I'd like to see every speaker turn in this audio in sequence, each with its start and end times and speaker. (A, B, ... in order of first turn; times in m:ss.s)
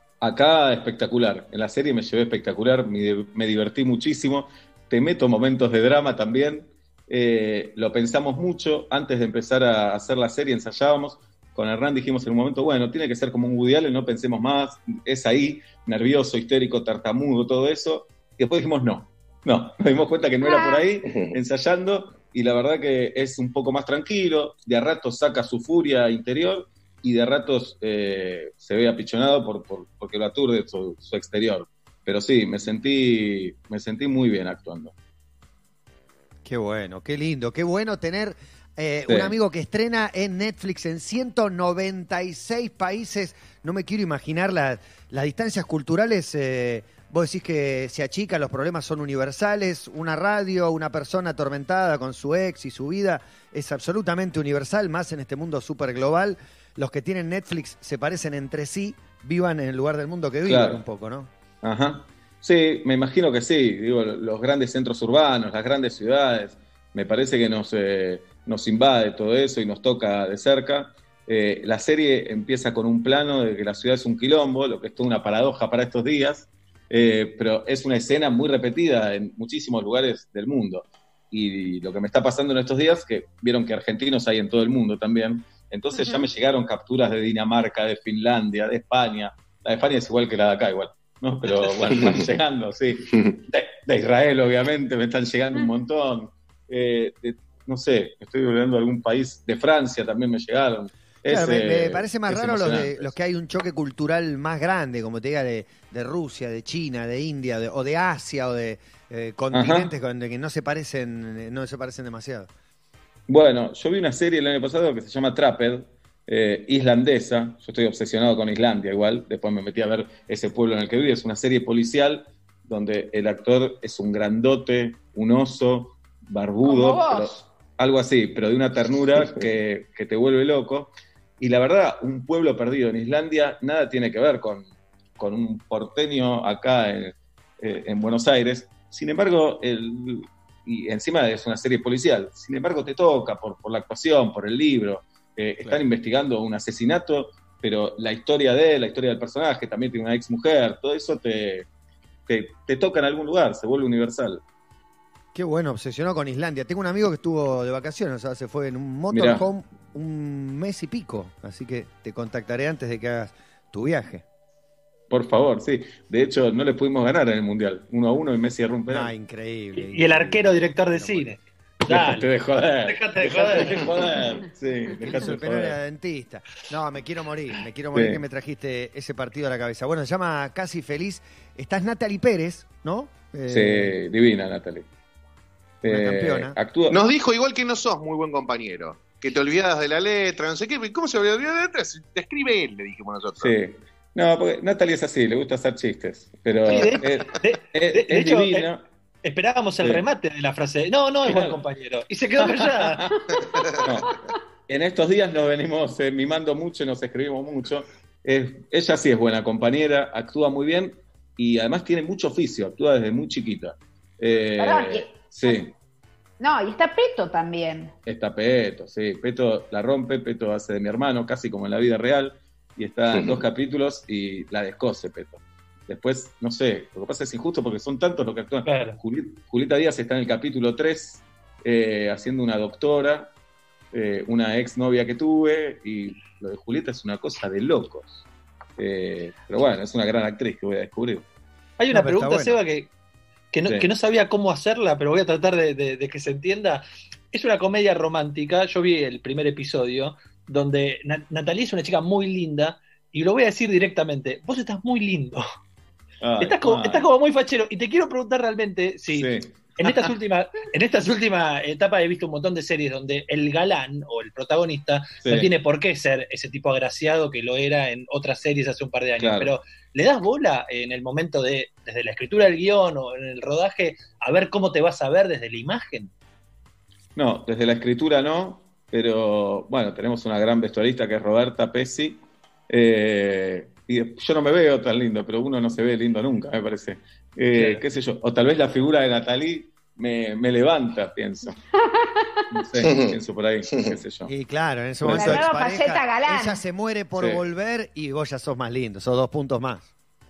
0:00.2-0:34.9 A
0:20.4-0:20.8 B
0:21.0-0:21.4 C
0:36.4-1:01.3 D
0:39.1-0:39.4 A
1:00.4-1:00.8 A
1:01.6-1:43.1 A
1:41.2-1:52.5 D
1:49.5-1:49.9 A
1:53.3-2:14.7 A
2:06.6-2:07.4 B
2:15.2-2:31.7 A
2:32.3-2:34.4 A
2:35.3-2:44.2 D
2:39.1-2:39.5 A
2:45.1-2:49.1 A
2:48.9-2:51.3 D
2:49.7-2:52.3 E
2:51.9-2:55.8 A
2:52.8-2:54.2 E
2:55.0-3:03.9 D
2:57.9-2:58.2 A
3:03.5-3:04.9 A
3:05.8-3:07.0 A
3:05.8-3:06.6 D
3:06.9-3:13.5 C
3:13.4-3:18.8 A
3:16.7-3:18.7 E
3:19.2-3:24.1 E
3:21.2-3:21.6 A
3:22.4-3:35.7 A
3:23.5-3:23.8 C
3:34.6-3:35.6 B
3:36.4-3:37.9 B
3:38.0-3:53.3 A
3:43.1-3:43.4 C
3:48.6-3:49.0 E
3:53.9-3:58.2 A
3:58.8-4:01.2 A
4:01.8-4:02.9 E
4:01.9-4:02.6 D
4:03.5-4:15.4 E
4:16.2-4:17.1 A
4:16.4-4:36.1 E
4:19.1-4:20.1 A
4:25.2-4:25.5 A
4:29.2-4:29.5 A
4:37.2-4:51.6 A
4:47.5-4:47.8 E
4:51.8-4:52.4 B
4:52.5-4:54.3 A
4:52.8-4:53.1 C
4:54.3-4:59.9 D
4:55.0-4:55.5 A
4:55.1-4:56.6 B